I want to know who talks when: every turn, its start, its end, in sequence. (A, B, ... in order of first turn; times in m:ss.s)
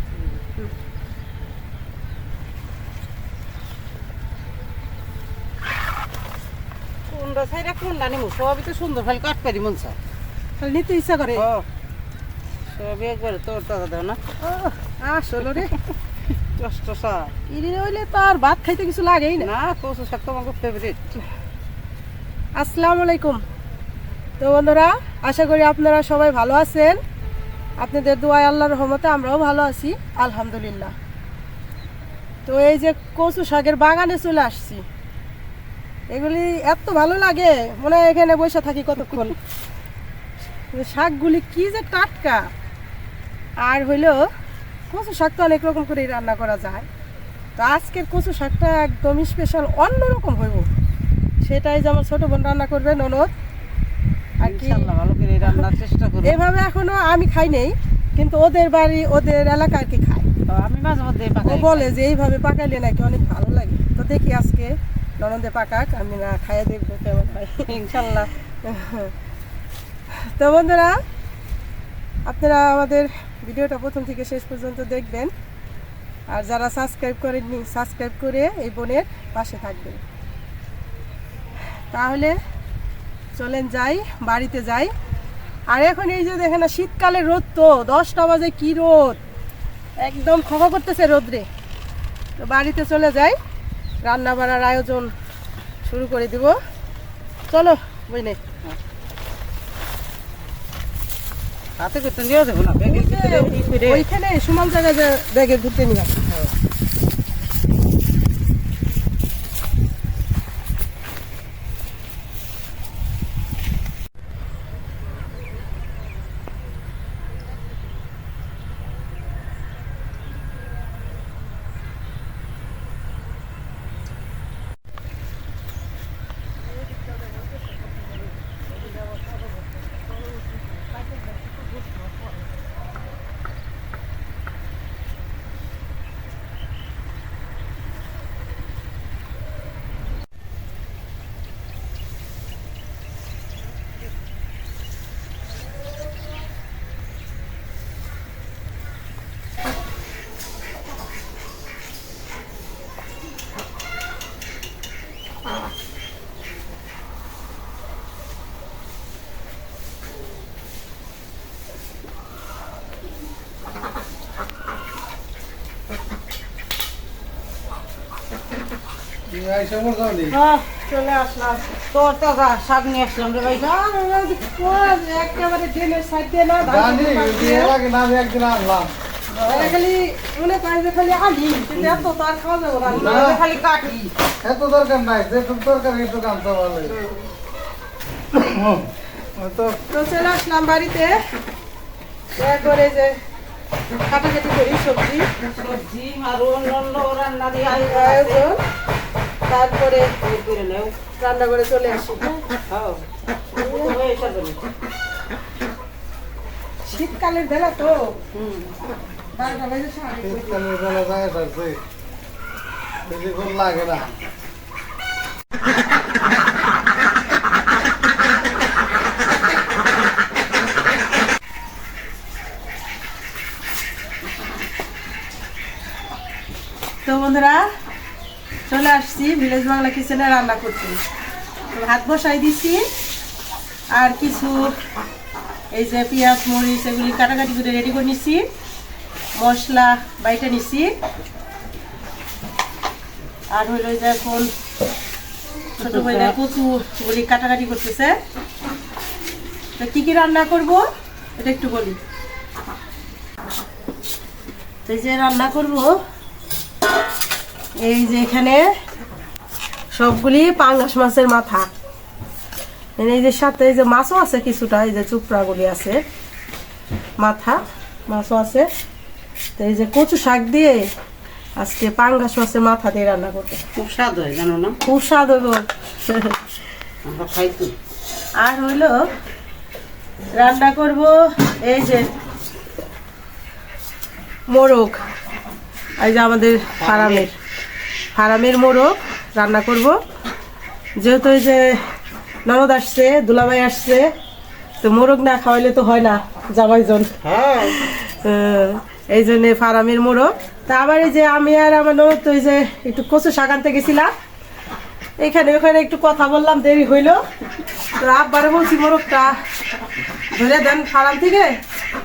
0:07.1-0:10.0 A
0:10.6-0:11.4 B
0:11.4-0:11.6 A
0:12.7-0:14.2 A
0:14.4-0:15.7 B
0:16.6-0:17.3 A
0:17.5-0:19.5 B
0:19.4-0:21.0 A
0:22.6-0:23.4 B
0:24.4-0:27.0 B
0:27.8-0:30.9 B
0:32.4-0:34.8 B
0:36.1-0:39.3 B
0:40.7-0:42.5 B
0:43.6-0:44.3 B
0:44.9-0:46.9 B
0:47.6-0:50.7 B
0:51.4-0:53.3 B
0:54.4-0:54.9 B
0:54.4-0:56.4 A
0:56.2-1:00.3 B
1:00.5-1:01.9 A
1:01.4-1:07.7 B
1:07.7-1:08.3 A
1:08.6-1:09.1 B
1:10.2-1:11.0 B
1:12.2-1:15.3 B
1:16.3-1:20.0 B
1:21.9-1:22.4 B
1:23.4-1:24.9 B
1:25.7-1:29.2 B
1:30.0-1:31.5 B
1:32.4-1:33.4 B
1:34.0-1:35.1 B
1:35.8-1:36.6 B
1:37.5-1:38.4 B
1:41.8-1:44.0 A
1:42.8-1:46.1 B
2:49.3-2:50.3 C
2:50.3-2:51.7 B
2:51.9-2:53.7 A
2:53.6-2:57.7 B
2:56.6-2:58.9 C
2:59.4-3:03.3 B
2:59.5-2:59.7 C
3:01.7-3:02.0 A
3:02.9-3:04.1 A
3:02.9-3:03.4 C
3:04.4-3:07.0 C
3:06.9-3:07.2 B
3:08.3-3:09.8 C
3:09.9-3:11.2 B
3:12.4-3:13.2 B
3:14.1-3:15.3 B
3:15.6-3:18.4 A
3:17.7-3:18.6 B
3:19.5-3:20.1 B
3:20.1-3:20.9 A
3:21.2-3:22.4 B
3:22.7-3:23.0 A
3:23.6-3:23.9 B
3:23.6-3:24.6 A
3:26.8-3:28.2 B
3:28.3-3:28.8 A
3:29.4-3:30.6 B
3:30.2-3:31.8 C
3:33.1-3:34.1 C
3:47.0-3:47.6 B
3:48.7-3:51.0 B
3:51.7-3:52.8 B
3:53.9-3:54.7 B
3:55.7-3:58.5 B
3:59.4-4:00.9 B
4:03.5-4:04.5 B
4:05.8-4:08.2 B
4:05.8-4:06.3 A
4:09.8-4:10.8 B
4:11.4-4:12.0 B
4:14.8-4:16.0 B
4:17.8-4:18.6 B
4:19.9-4:21.7 B
4:23.0-4:26.0 B
4:27.2-4:28.7 B
4:29.6-4:30.9 B
4:31.6-4:33.6 B
4:33.8-4:34.8 A
4:34.8-4:36.1 B
4:37.0-4:37.7 A
4:38.4-4:39.1 B
4:40.4-4:42.0 B
4:44.5-4:45.0 B
4:46.0-4:47.3 B
4:46.8-4:47.3 A
4:48.1-4:50.0 B
4:51.0-4:51.8 B
4:52.4-4:54.1 B
4:54.8-4:57.1 B
4:57.2-4:57.8 A
4:57.7-5:04.1 B
5:05.2-5:07.2 B
5:08.0-5:09.3 B
5:10.3-5:11.6 B